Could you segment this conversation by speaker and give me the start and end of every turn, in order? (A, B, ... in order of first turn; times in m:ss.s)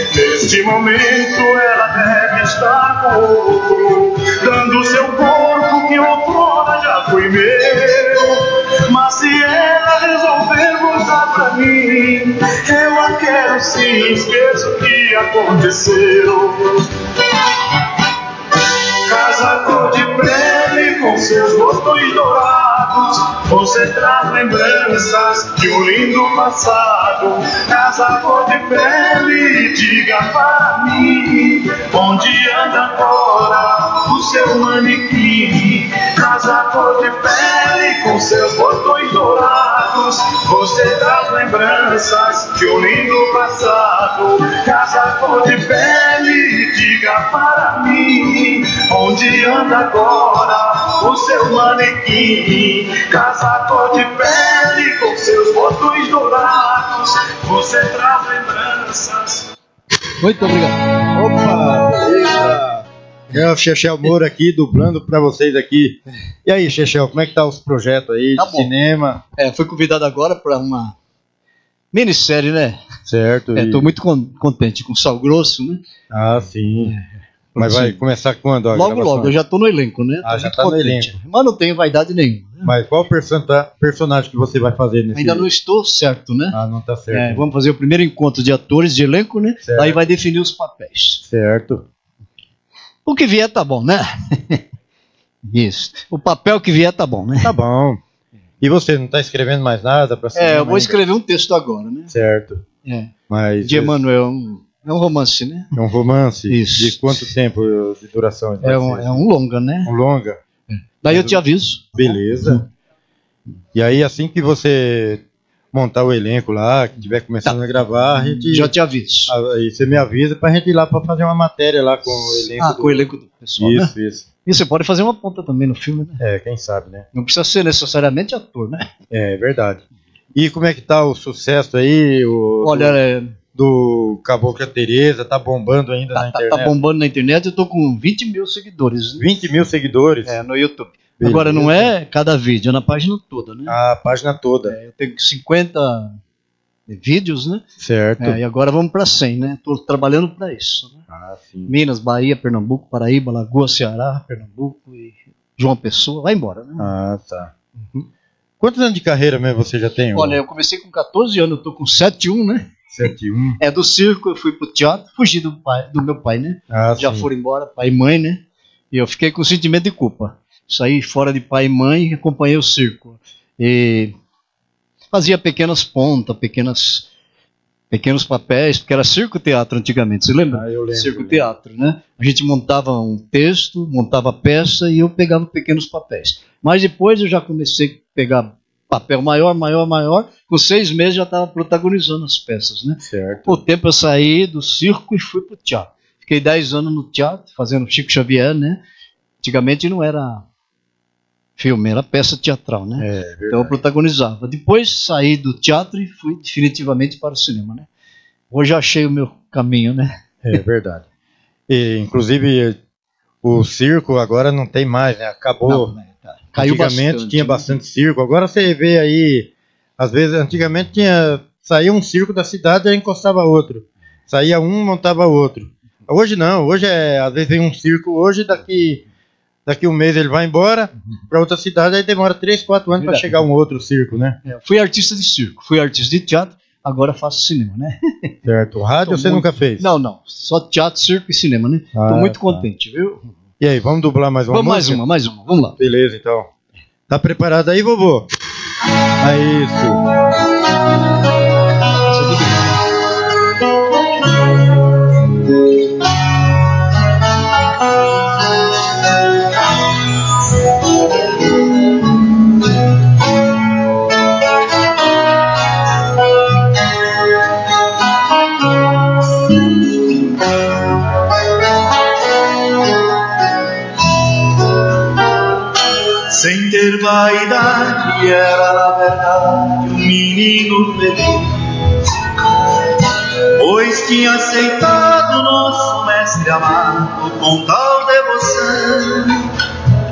0:00.2-0:08.3 A
0:08.9-0:16.6 A
0:19.1-0:59.4 A
1:00.2-1:00.8 B
1:01.1-1:09.2 C
1:08.4-1:08.7 B
1:09.4-1:11.0 B
1:11.9-1:12.8 B
1:13.1-1:13.9 C
1:13.6-1:15.8 B
1:16.1-1:17.0 C
1:16.8-1:18.0 B
1:17.6-1:19.4 C
1:18.7-1:22.7 B
1:20.2-1:21.1 C
1:22.6-1:25.5 C
1:25.1-1:26.6 B
1:26.5-1:27.4 C
1:27.1-1:31.2 B
1:29.6-1:30.0 C
1:31.2-1:31.8 C
1:33.1-1:34.6 B
1:35.5-1:37.5 B
1:37.4-1:38.0 C
1:38.6-1:41.0 C
1:40.4-1:42.1 B
1:42.1-1:42.6 C
1:42.8-1:45.7 B
1:43.3-1:44.0 C
1:45.7-1:49.2 C
1:46.5-1:47.3 B
1:48.6-1:49.9 B
1:49.8-1:50.4 C
1:50.7-1:52.6 B
1:51.1-1:51.4 C
1:51.9-1:52.6 C
1:53.7-1:58.7 C
1:58.4-1:59.3 B
1:59.3-2:03.1 C
2:02.6-2:03.9 B
2:03.6-2:04.3 C
2:04.5-2:06.2 B
2:06.2-2:07.1 C
2:07.1-2:08.9 B
2:09.1-2:09.8 C
2:10.4-2:13.0 C
2:12.6-2:13.4 B
2:13.6-2:16.7 C
2:16.2-2:19.2 B
2:19.2-2:20.4 C
2:20.3-2:23.8 B
2:21.2-2:21.9 C
2:23.7-2:24.8 C
2:24.7-2:26.2 B
2:26.9-2:27.6 B
2:27.8-2:28.4 C
2:28.2-2:31.0 B
2:31.1-2:31.7 C
2:31.7-2:36.9 B
2:36.8-2:37.5 C
2:38.6-2:40.4 C
2:40.2-2:42.7 B
2:42.9-2:43.6 C
2:43.6-2:54.2 B
2:46.7-2:47.3 C
2:55.1-2:57.1 B
2:57.9-3:18.8 B
3:00.5-3:01.5 C
3:13.1-3:13.6 C
3:19.4-3:20.4 B
3:21.6-3:27.9 B
3:23.0-3:23.7 C
3:28.5-3:30.2 B
3:30.4-3:31.0 C
3:31.7-3:32.8 C
3:33.4-3:36.0 C
3:35.7-3:37.8 B
3:36.6-3:49.0 C
3:49.7-3:54.4 C
3:53.0-3:53.4 B
3:54.5-3:58.4 B
3:58.4-3:59.9 C
3:59.0-4:03.3 B
4:01.9-4:02.7 C
4:03.6-4:05.0 C
4:04.5-4:05.8 B
4:05.8-4:06.5 C
4:07.1-4:08.3 C
4:09.2-4:10.0 C
4:12.0-4:12.7 B
4:36.3-4:41.7 D
4:43.6-4:49.5 D